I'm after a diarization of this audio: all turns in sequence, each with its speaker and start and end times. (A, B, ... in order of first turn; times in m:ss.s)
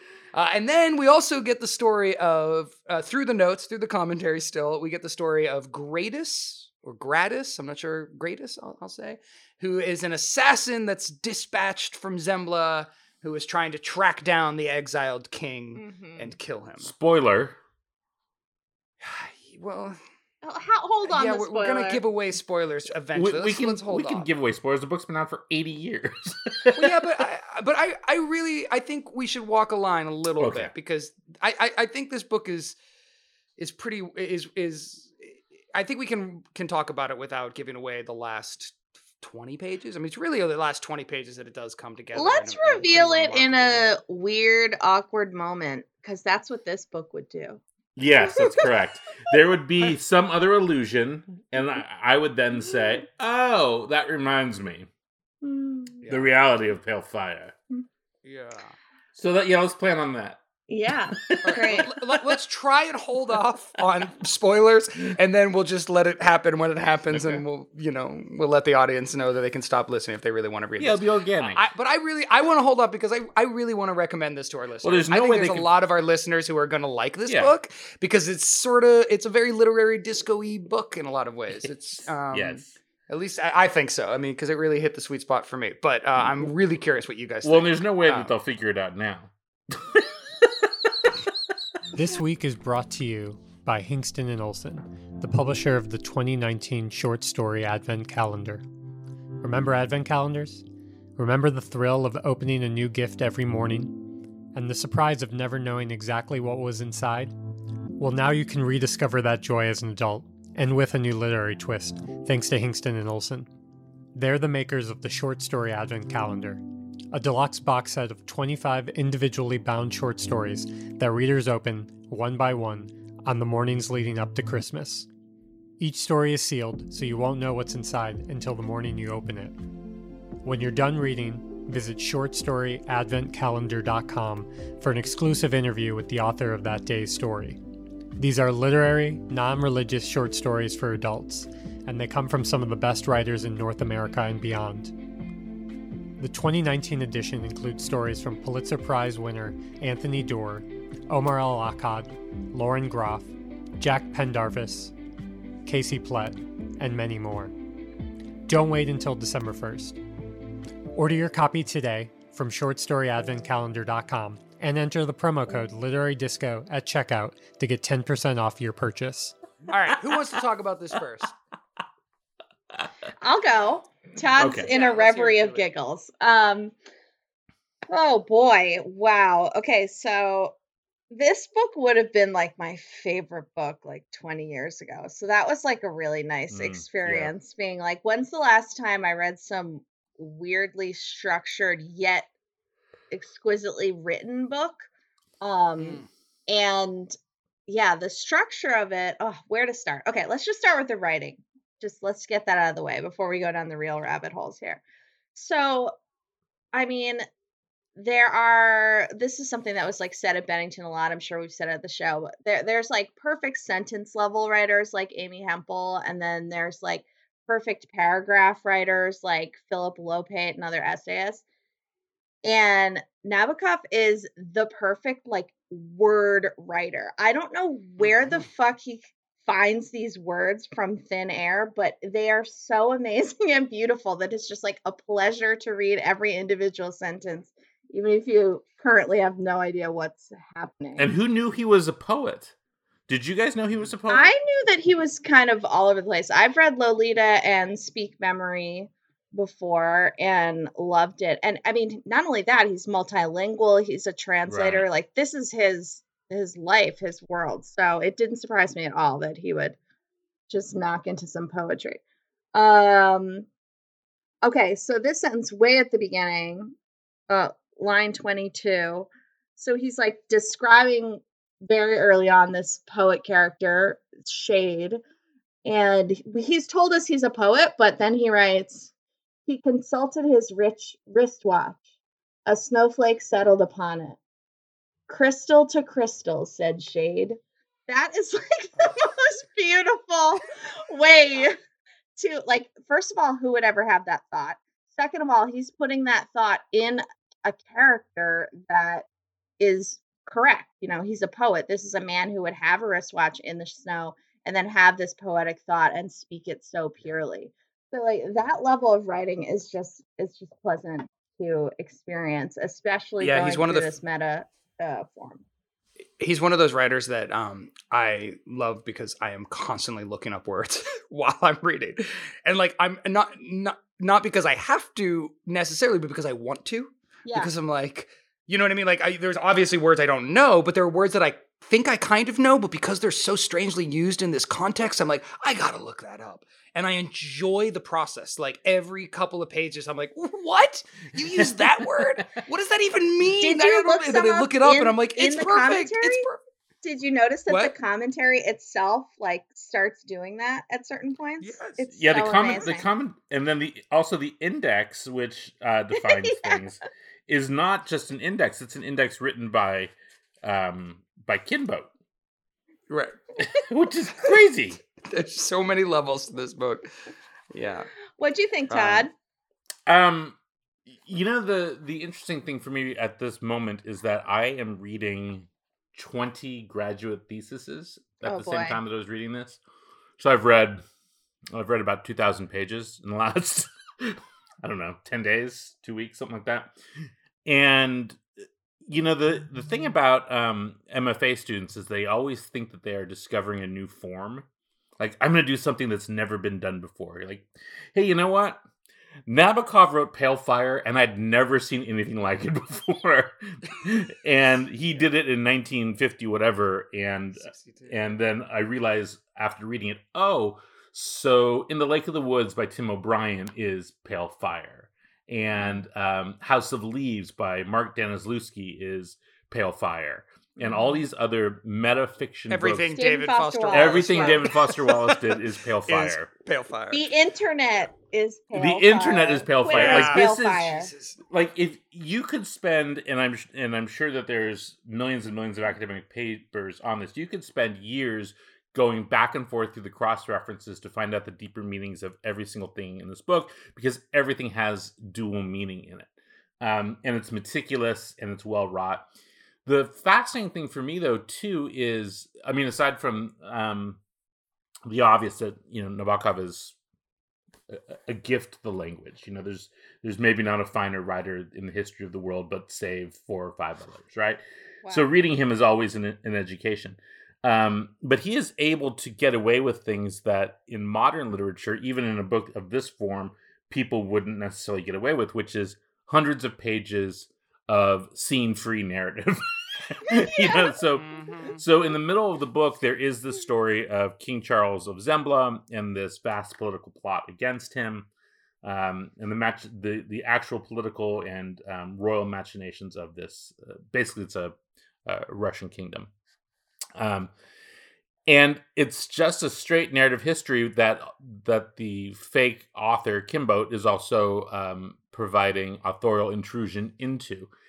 0:00.3-0:16.9 A
0:15.7-0:16.3 B
0:16.8-0:17.6 C
0:19.0-0:20.0 A
0:20.4-0:22.0 B
0:21.0-0:24.3 A
0:23.1-0:27.1 C
0:26.7-0:32.8 A
0:30.4-0:30.7 C
0:33.6-0:44.0 A
0:42.1-0:47.6 B
0:48.0-0:54.9 C
0:48.2-0:48.7 B
0:55.4-0:56.0 B
0:56.0-0:56.3 A
0:56.1-0:57.5 C
0:58.2-0:58.8 A
0:59.1-1:02.0 C
1:00.7-1:01.9 B
1:01.4-1:28.3 A
1:07.1-1:07.4 C
1:10.8-1:11.6 C
1:14.8-1:15.7 C
1:17.3-1:17.5 C
1:22.3-1:22.8 C
1:27.4-1:31.2 C
1:31.9-1:38.6 D
1:39.4-1:40.6 D
1:41.2-1:44.0 D
1:44.5-1:47.3 D
1:48.0-1:53.5 D
1:54.1-2:05.1 D
2:05.8-2:09.6 D
2:10.4-2:17.6 D
2:18.2-2:24.9 D
2:26.2-2:34.9 D
2:35.6-2:37.5 D
2:38.4-2:40.0 D
2:40.9-2:49.3 D
2:49.7-2:51.3 A
2:53.2-2:56.7 B
2:54.4-2:54.7 C
2:54.7-2:55.6 A
2:57.9-3:00.5 B
3:01.1-3:12.3 B
3:06.5-3:07.3 C
3:13.1-3:14.9 B
3:15.4-3:17.1 B
3:15.8-3:16.1 A
3:17.7-3:24.8 B
3:25.3-3:25.9 B
3:26.7-3:27.2 B
3:28.0-3:41.4 B
3:42.4-4:01.1 B
4:01.0-4:02.5 C
4:03.1-4:04.3 C
4:04.1-4:19.8 B
4:14.5-4:14.9 C
4:20.5-4:22.0 B
4:22.5-4:23.5 B
4:24.4-4:26.7 B
4:27.3-4:35.0 B
4:35.6-4:38.9 B
4:39.5-4:41.8 B
4:42.4-4:44.2 B
4:45.1-4:51.6 B
4:52.2-4:59.0 B
4:59.6-5:15.4 B
5:13.2-5:13.9 A
5:16.2-5:46.4 A
5:27.2-5:27.5 B
5:41.3-5:41.8 C
5:43.4-5:46.2 B
5:46.8-5:52.8 B
5:51.4-5:51.8 A
5:52.0-6:01.9 C
5:56.0-5:56.6 B
6:02.9-6:03.2 A
6:03.4-6:04.8 C
6:05.0-6:06.8 A
6:07.5-6:07.9 A
6:08.2-6:09.1 B
6:08.7-6:09.1 A
6:09.9-6:19.6 C
6:18.2-6:18.8 B
6:20.2-6:20.8 C
6:21.5-6:26.7 C
6:27.4-6:28.2 C
6:28.8-6:34.5 C
6:35.0-6:38.6 C
6:39.2-7:02.9 C
6:47.4-6:48.0 A
7:00.6-7:01.0 B
7:02.5-7:05.2 A
7:03.0-7:04.5 B
7:03.7-7:06.3 C
7:05.8-7:07.1 A
7:06.9-7:10.9 B
7:08.5-7:10.7 C
7:09.7-7:11.2 A
7:11.3-7:26.1 C
7:26.6-7:29.0 C
7:29.6-7:34.0 C
7:34.8-7:36.8 C
7:37.7-8:08.1 C
8:00.9-8:01.6 A
8:08.6-8:14.5 C
8:15.0-8:16.1 C
8:17.0-8:17.3 C
8:18.3-8:27.5 C